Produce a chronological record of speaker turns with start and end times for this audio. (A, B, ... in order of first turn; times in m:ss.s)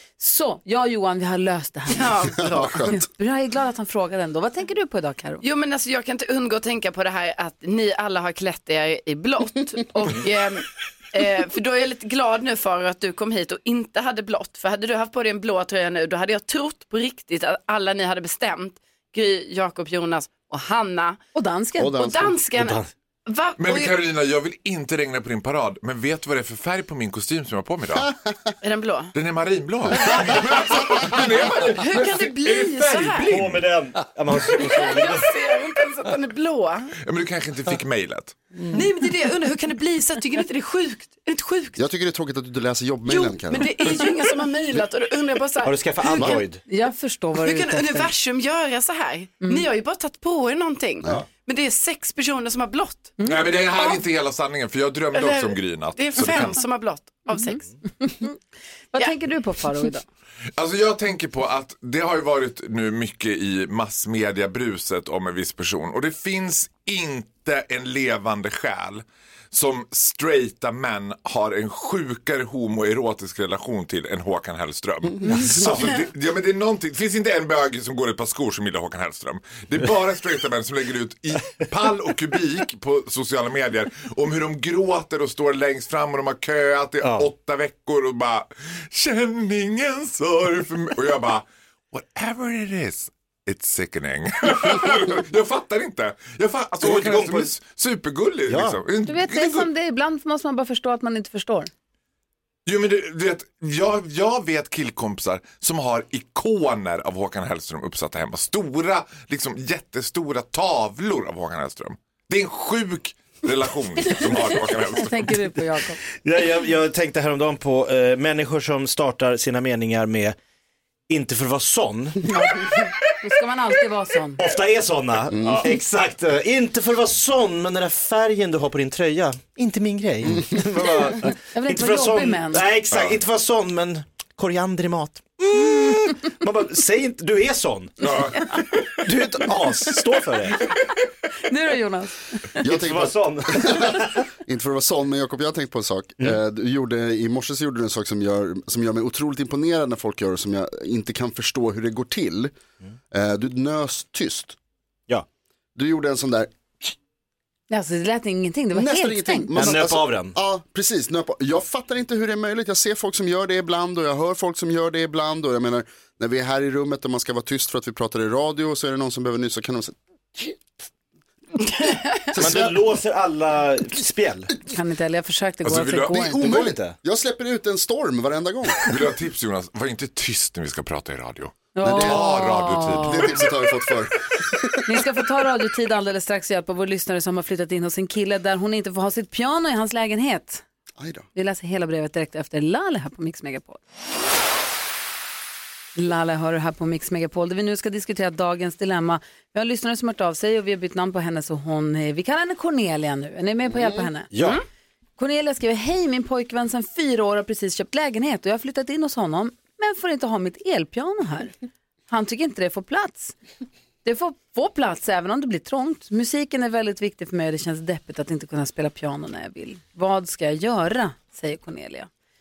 0:00.2-0:05.4 A
0:02.0-0:03.0 B
0:02.3-0:03.0 C
0:05.4-0:21.2 B
0:21.4-0:22.0 A
0:21.8-0:22.4 C
0:22.0-0:23.9 B
0:22.6-0:22.9 D
0:23.6-0:28.1 E
0:28.6-0:29.1 B
0:29.1-0:33.7 E
0:30.1-0:33.3 B
0:33.3-0:35.3 D
0:34.6-0:36.9 B
0:37.0-0:38.4 E
0:38.7-0:41.8 B
0:41.8-0:43.7 C
0:43.1-0:46.4 B
0:45.6-0:46.6 D
0:46.2-0:46.4 C
0:46.7-0:48.1 A
0:47.4-0:53.2 B
0:53.2-0:53.4 A
0:53.2-0:56.6 E
0:55.1-0:57.7 B
0:57.3-0:58.4 A
0:58.9-1:00.0 A
1:00.6-1:39.7 E
1:27.0-1:27.3 D
1:36.8-1:37.5 D
1:38.5-1:38.8 D
1:39.1-1:41.7 A
1:42.7-1:55.4 E
1:54.9-1:56.0 A
1:56.2-2:00.4 D
2:01.1-2:02.3 D
2:02.3-2:02.7 A
2:03.2-2:04.4 A
2:04.4-2:18.2 D
2:05.3-2:05.7 C
2:10.2-2:10.6 C
2:11.5-2:12.6 A
2:12.9-2:13.2 E
2:18.0-2:19.0 E
2:19.0-2:20.6 D
2:21.4-2:22.5 A
2:22.6-2:24.2 D
2:22.6-2:32.6 C
2:33.1-2:34.6 C
2:35.8-2:36.9 C
2:37.7-2:39.7 A
2:38.7-2:50.5 C
2:39.5-2:40.4 D
2:52.3-2:52.8 C
2:52.4-2:54.6 D
2:54.7-2:56.6 A
2:55.6-2:56.3 E
2:56.3-2:58.9 C
2:56.3-2:57.0 D
2:58.8-3:03.5 E
3:01.8-3:03.4 A
3:01.8-3:04.8 C
3:04.9-3:10.6 A
3:11.0-3:11.3 C
3:11.4-3:13.8 A
3:16.0-3:24.3 A
3:23.7-3:24.1 C
3:24.3-3:24.6 D
3:25.2-3:31.5 A
3:32.1-3:33.4 A
3:34.0-3:42.1 A